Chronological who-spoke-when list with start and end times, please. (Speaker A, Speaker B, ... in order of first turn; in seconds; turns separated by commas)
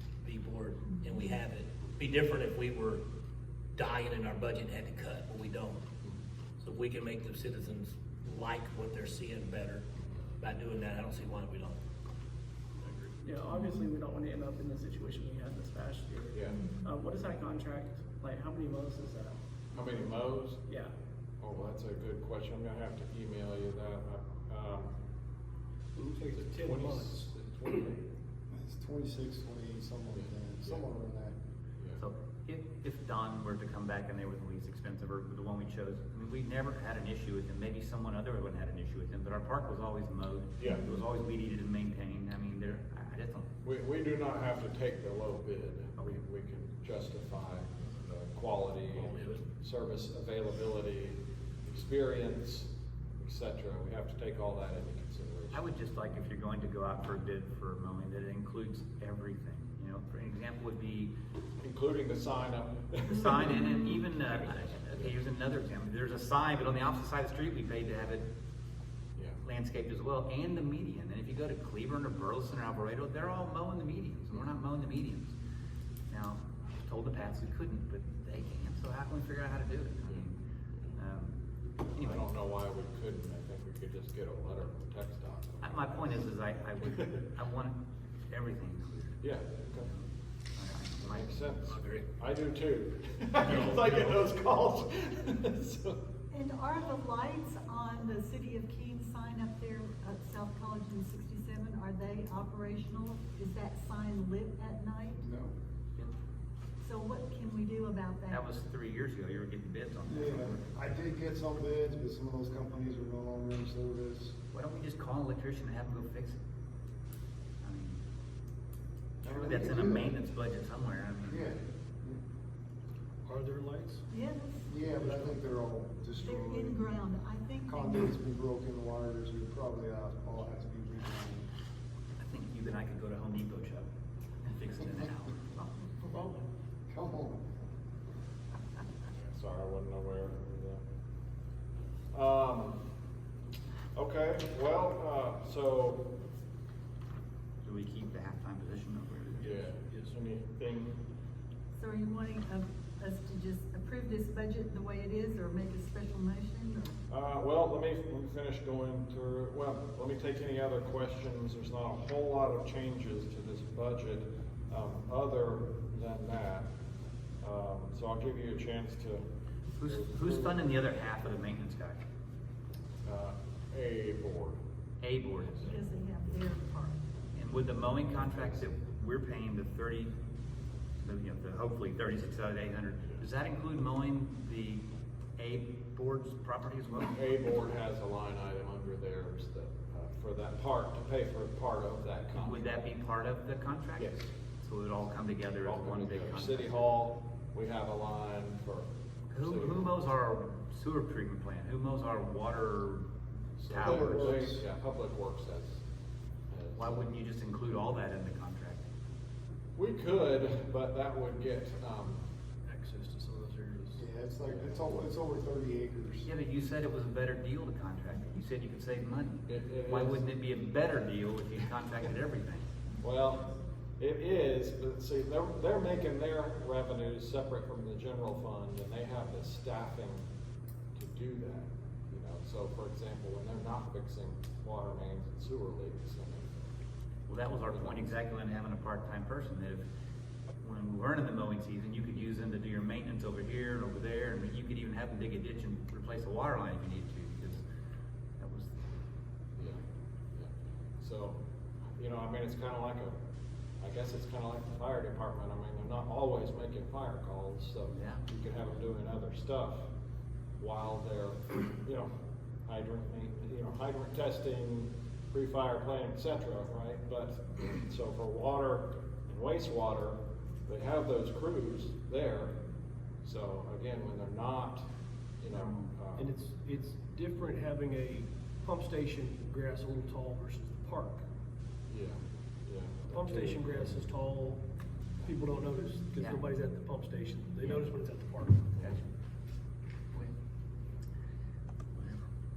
Speaker A: 0.2-3.0, Speaker B: 1.0-1.3, Speaker A: 3.8-5.8, Speaker A: 6.6-9.8, Speaker A: 10.4-11.8, Speaker C: 13.2-19.4, Speaker B: 13.5-13.8, Speaker D: 16.3-16.6, Speaker B: 16.5-16.8, Speaker D: 19.7-20.6, Speaker C: 20.7-20.9, Speaker D: 21.4-24.9, Speaker E: 26.0-27.1, Speaker D: 26.4-28.0, Speaker F: 28.5-31.3, Speaker D: 30.1-30.8, Speaker G: 32.0-43.5, Speaker D: 43.6-55.7, Speaker A: 49.0-49.5, Speaker G: 55.5-61.1, Speaker D: 61.6-65.2, Speaker G: 63.1-68.3, Speaker G: 69.4-75.3, Speaker G: 76.1-80.4, Speaker G: 80.9-81.3, Speaker G: 81.9-82.2, Speaker D: 82.0-86.1, Speaker G: 85.6-87.8, Speaker D: 86.9-87.2, Speaker G: 88.3-89.2, Speaker D: 89.2-89.9, Speaker G: 90.5-91.5, Speaker D: 91.0-96.0, Speaker A: 91.7-92.1, Speaker G: 93.5-94.1, Speaker B: 96.3-105.2, Speaker F: 105.2-105.5, Speaker B: 106.8-108.5, Speaker G: 108.3-110.7, Speaker F: 110.0-114.3, Speaker G: 114.5-116.4, Speaker G: 117.6-118.0, Speaker F: 119.2-120.2, Speaker G: 119.2-121.5, Speaker F: 121.3-122.2, Speaker E: 123.2-124.0, Speaker B: 124.1-124.8, Speaker F: 124.7-126.8, Speaker E: 125.0-125.3, Speaker B: 126.2-128.2, Speaker F: 127.7-131.5, Speaker G: 132.2-133.9, Speaker G: 134.5-135.7, Speaker F: 136.9-137.6, Speaker D: 139.3-140.8, Speaker D: 142.1-142.8, Speaker D: 143.9-146.1, Speaker G: 147.6-149.7, Speaker D: 149.4-151.0, Speaker B: 151.8-157.0, Speaker D: 157.1-166.7, Speaker D: 167.4-169.2, Speaker G: 169.7-172.0, Speaker D: 169.8-170.6, Speaker D: 173.1-174.6, Speaker G: 175.0-175.8, Speaker B: 175.6-177.0, Speaker G: 177.3-180.1, Speaker D: 178.1-178.6, Speaker G: 181.0-184.8, Speaker G: 185.4-187.2, Speaker D: 187.0-192.7, Speaker G: 192.3-194.1, Speaker D: 194.0-194.3, Speaker G: 194.6-196.8, Speaker D: 195.6-200.0, Speaker G: 199.3-203.1, Speaker D: 203.6-205.8, Speaker G: 203.7-204.5, Speaker F: 203.8-204.6, Speaker D: 206.5-207.1, Speaker G: 206.7-208.8, Speaker D: 209.8-212.2, Speaker E: 212.7-214.0, Speaker F: 214.0-216.3, Speaker D: 214.5-214.8, Speaker G: 216.3-222.7, Speaker D: 219.5-220.3, Speaker D: 223.0-230.2, Speaker D: 230.9-236.5, Speaker G: 237.3-239.9, Speaker D: 237.7-238.0, Speaker G: 240.6-247.6, Speaker G: 248.4-248.7, Speaker D: 250.3-251.4, Speaker D: 252.0-253.2, Speaker D: 253.8-259.9, Speaker G: 257.9-258.2, Speaker D: 260.6-262.1, Speaker D: 262.7-272.6, Speaker D: 273.2-274.9, Speaker D: 275.4-276.3, Speaker E: 276.2-281.2, Speaker D: 281.9-284.0, Speaker E: 283.1-284.6, Speaker E: 285.3-288.7, Speaker G: 286.2-286.4, Speaker G: 287.6-287.9, Speaker G: 291.9-292.2